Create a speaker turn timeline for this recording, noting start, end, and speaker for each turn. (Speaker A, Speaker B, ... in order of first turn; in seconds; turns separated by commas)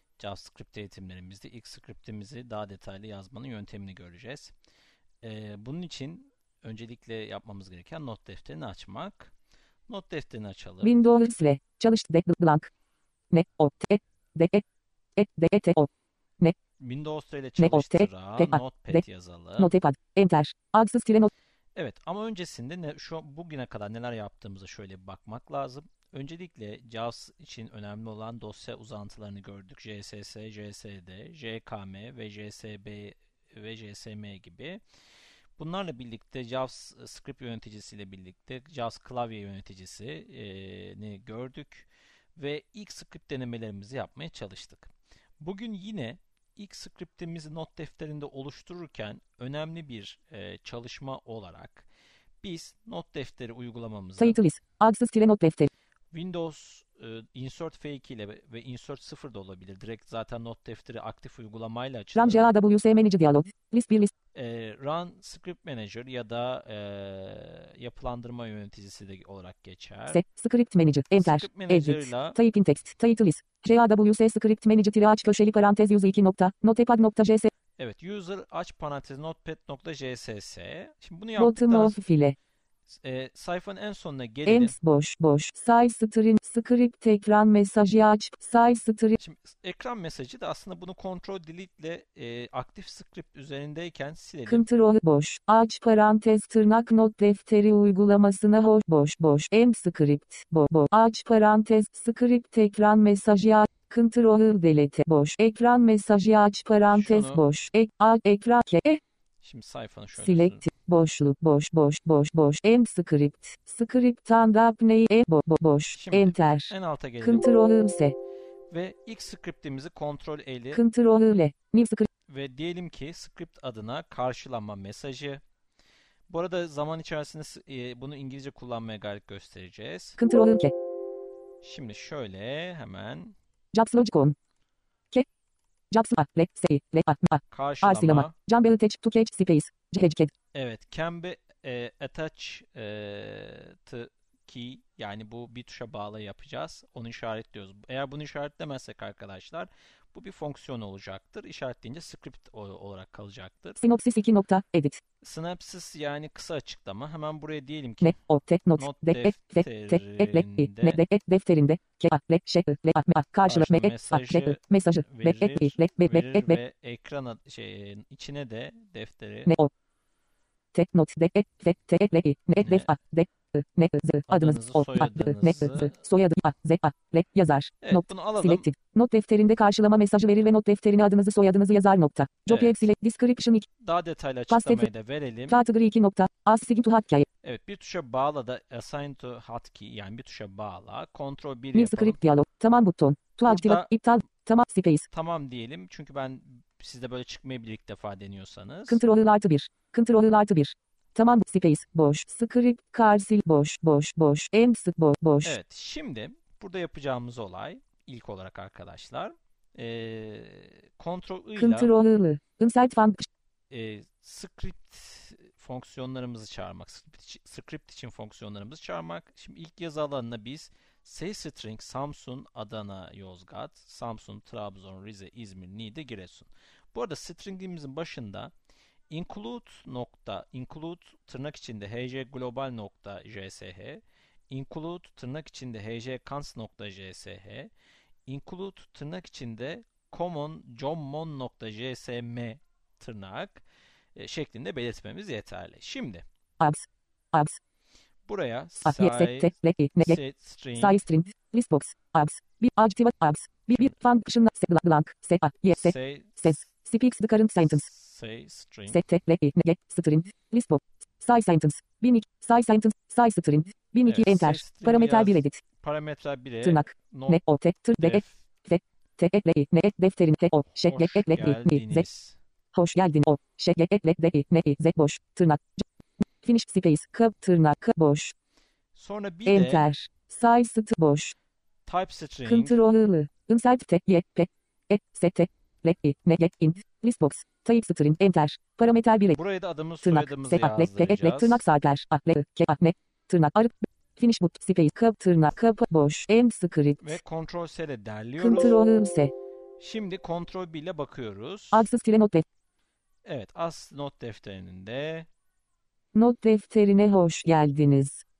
Speaker A: 0.2-4.5, Speaker A: 5.2-9.3, Speaker A: 9.9-10.9, Speaker B: 10.8-12.7, Speaker B: 13.3-14.6, Speaker B: 15.2-16.6, Speaker A: 16.8-19.7, Speaker B: 17.6-19.0, Speaker B: 19.6-21.3, Speaker A: 21.8-34.8, Speaker A: 35.6-51.9, Speaker A: 52.4-54.4, Speaker B: 54.2-55.7, Speaker A: 56.1-62.5, Speaker B: 62.1-64.1, Speaker A: 64.3-70.2, Speaker B: 70.1-77.5, Speaker A: 71.2-72.4, Speaker A: 77.8-82.0, Speaker B: 81.3-82.3, Speaker A: 82.9-84.8, Speaker B: 84.5-89.2, Speaker A: 89.2-94.7, Speaker B: 94.5-109.0, Speaker A: 106.9-107.4, Speaker A: 109.4-110.7, Speaker B: 110.2-118.2, Speaker A: 115.9-117.5, Speaker A: 118.7-120.8, Speaker B: 120.7-122.1, Speaker A: 122.3-125.4, Speaker A: 126.3-130.2, Speaker B: 130.2-130.7, Speaker A: 131.6-133.3, Speaker B: 133.7-134.3, Speaker B: 135.9-140.3, Speaker A: 137.5-138.3, Speaker A: 140.5-153.8, Speaker B: 153.8-155.0, Speaker A: 155.2-158.2, Speaker B: 158.0-166.6, Speaker A: 158.8-161.0, Speaker A: 163.5-169.6, Speaker B: 169.4-169.7, Speaker B: 170.7-183.7, Speaker A: 172.6-172.9, Speaker A: 174.3-176.0, Speaker A: 177.8-178.7, Speaker A: 182.5-182.9, Speaker A: 183.8-185.6, Speaker B: 184.5-184.9, Speaker B: 185.5-187.3, Speaker A: 187.4-192.2, Speaker B: 191.7-195.1, Speaker A: 193.4-193.9, Speaker A: 195.1-199.0, Speaker B: 198.9-205.6, Speaker A: 205.4-211.9, Speaker B: 211.6-213.3, Speaker A: 213.7-228.5, Speaker A: 229.1-237.7, Speaker A: 238.3-246.2, Speaker B: 246.6-247.6, Speaker A: 248.3-251.0, Speaker B: 248.8-250.2, Speaker B: 250.8-257.9, Speaker A: 255.7-256.5, Speaker A: 257.6-259.0, Speaker B: 258.9-265.6, Speaker A: 264.0-267.4, Speaker B: 266.6-272.1, Speaker A: 268.0-268.4, Speaker A: 270.9-272.4, Speaker B: 272.7-275.8, Speaker B: 276.4-278.3, Speaker A: 278.9-279.9, Speaker B: 279.4-281.3, Speaker A: 281.9-282.8, Speaker B: 282.4-289.4, Speaker A: 289.3-291.6, Speaker B: 290.0-297.2, Speaker A: 297.0-298.8, Speaker B: 298.4-299.3, Speaker A: 299.8-301.9, Speaker B: 301.7-302.4, Speaker A: 303.2-305.3, Speaker B: 306.1-308.2